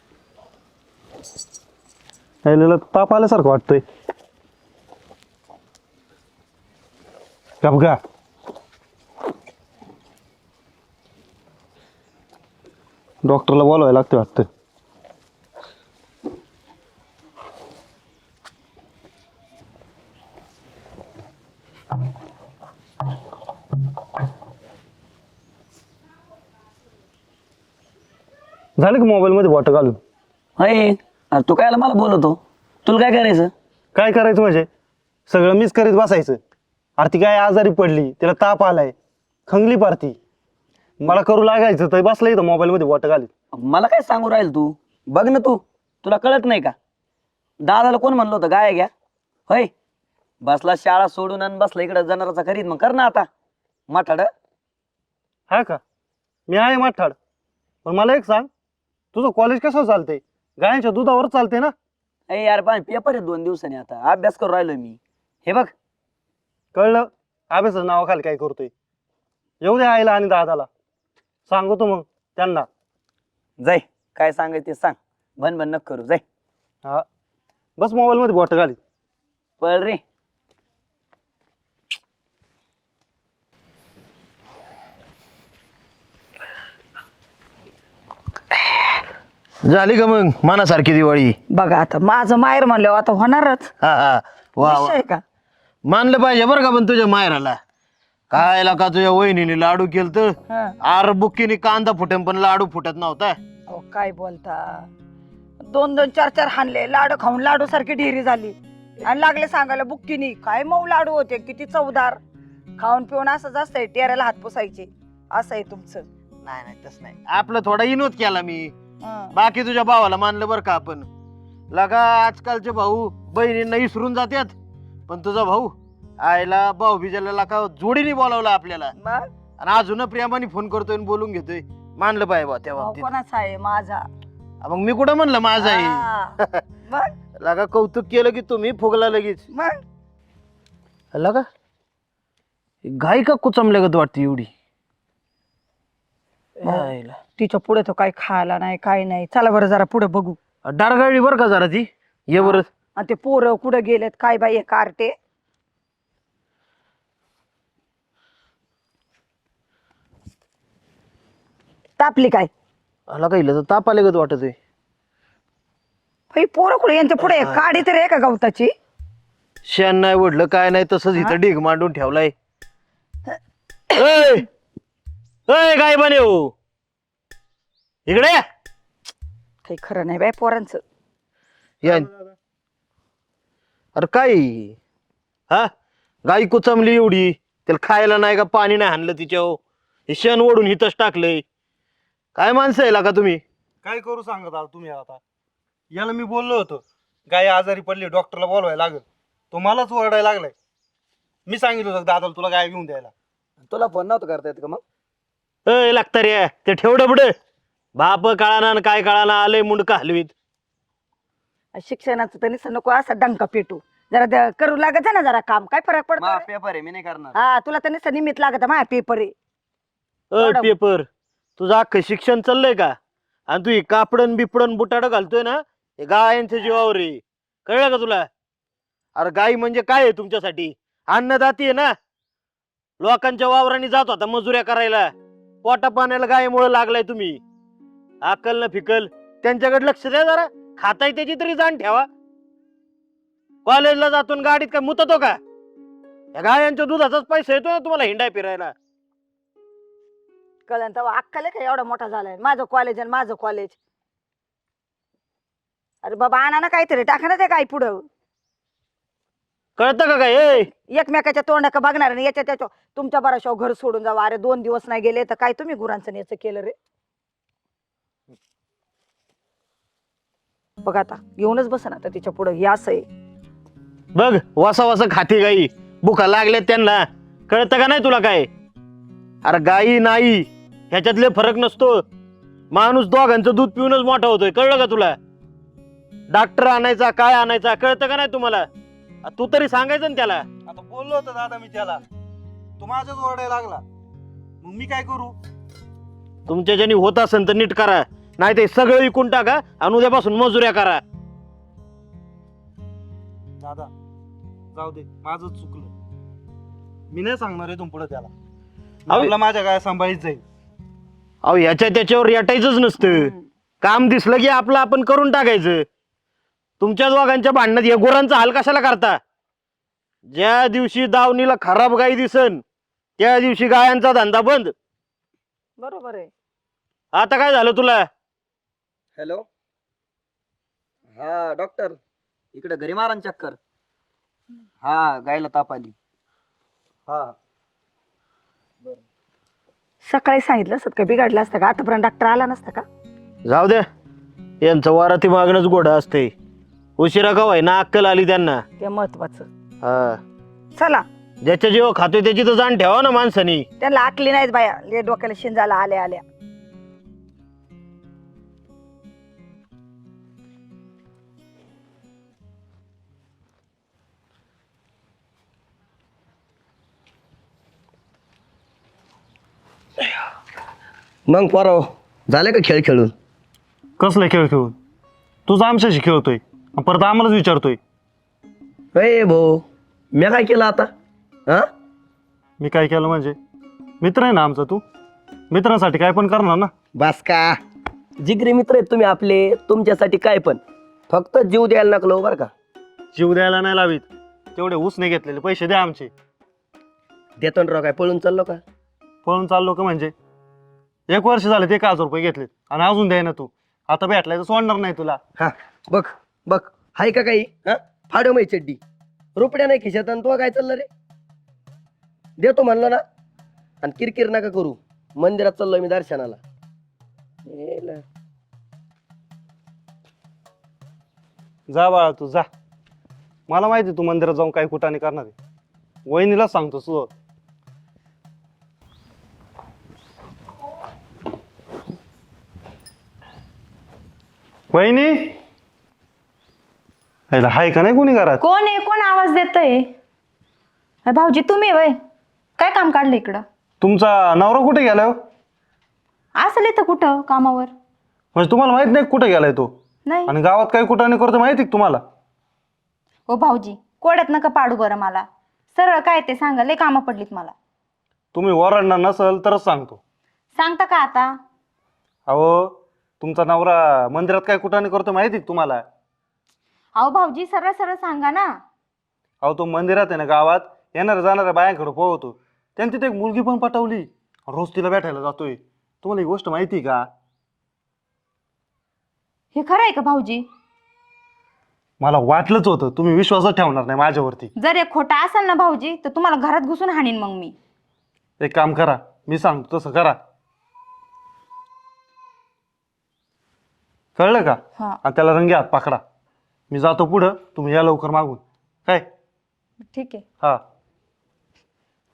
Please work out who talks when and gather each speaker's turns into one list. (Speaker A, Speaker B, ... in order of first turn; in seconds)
Speaker A: 2.4-3.8, 7.6-8.0, 13.2-14.5, 28.8-30.0, 33.9-34.7, 35.3-36.4, 37.0-38.9, 39.5-40.2, 41.0-43.3, 55.5-55.8, 56.5-57.1, 57.8-58.5, 59.1-61.7, 66.7-68.7, 69.6-70.7, 71.5-72.7, 77.8-78.8, 193.8-195.2, 195.9-200.5, 201.5-203.1, 290.6-292.0, 292.8-293.8, 294.6-295.4, 303.6-303.9, 304.7-305.9, 307.1-308.3, 309.1-310.4, 374.0-374.7, 375.5-377.8, 382.6-383.4, 384.0-384.8, 385.5-386.7, 393.1-396.1, 399.2-400.1, 401.1-405.2, 421.7-422.5, 423.5-425.3, 426.1-427.1, 434.7-435.4, 437.3-438.4, 443.8-445.1, 448.3-449.7, 450.3-452.0, 458.3-460.0, 462.3-465.8, 469.4-477.1, 482.0-484.5, 488.4-490.2, 494.1-496.0, 496.7-499.1
Speaker B: 30.6-33.5, 43.5-46.7, 47.6-48.9, 49.5-49.7, 50.4-53.3, 53.9-54.3, 62.3-65.7, 73.6-76.2, 79.6-80.0, 146.6-147.1, 203.6-204.8, 216.2-217.3, 329.1-329.4, 331.1-332.0, 332.5-333.6, 334.8-335.9, 371.3-373.1, 378.9-380.9, 386.9-387.6, 388.2-392.5, 397.4-398.6, 405.4-408.8, 409.4-410.9, 412.4-413.0, 413.8-416.4, 417.4-418.0
Speaker C: 89.7-91.3, 93.8-95.0, 95.9-97.5, 98.3-103.3, 116.4-118.7, 119.3-121.1, 121.7-124.5, 125.1-128.9, 129.6-133.0, 134.6-136.6, 137.4-139.4, 141.1-141.4, 142.8-144.5, 150.7-152.7, 163.1-164.5, 167.2-167.8, 169.7-172.3, 173.9-174.4, 175.5-176.5, 178.1-178.4, 181.8-182.1, 183.9-184.8, 186.2-191.4, 192.3-193.4, 205.7-207.3, 207.9-210.3, 220.3-221.1, 221.6-222.9, 223.5-228.2, 229.2-231.9, 233.0-235.1, 235.6-237.4, 238.2-242.1, 243.7-245.4, 246.3-248.7, 259.8-260.7, 274.1-278.5, 279.4-282.0, 282.7-285.1, 286.3-288.6, 289.2-290.4, 296.5-301.0, 311.4-315.8, 316.8-319.2, 320.3-322.6, 323.2-324.7, 327.1-328.1, 343.5-343.8, 344.6-346.3, 347.0-348.6, 349.8-350.2, 351.4-353.6
Speaker D: 91.5-93.7, 94.6-95.2, 103.7-104.9, 105.7-112.2, 112.8-116.0, 119.0-119.3, 129.0-129.3, 132.8-134.0, 135.6-136.3, 136.9-137.1, 139.5-139.8, 146.7-150.4, 152.4-155.1, 162.0-162.5, 166.3-168.7, 179.6-180.8, 211.7-216.4, 217.3-219.3, 220.4-220.7, 250.7-253.8, 256.0-258.0, 260.8-266.7, 270.8-273.0, 325.8-326.3, 340.1-342.8, 348.8-349.5, 350.8-351.0, 353.8-356.2
Speaker E: 438.4-439.9, 441.1-441.9, 442.6-443.4, 446.4-447.7, 450.1-450.3, 453.3-457.5, 460.6-461.4, 467.0-468.5, 479.5-480.4, 484.6-487.5, 499.9-500.2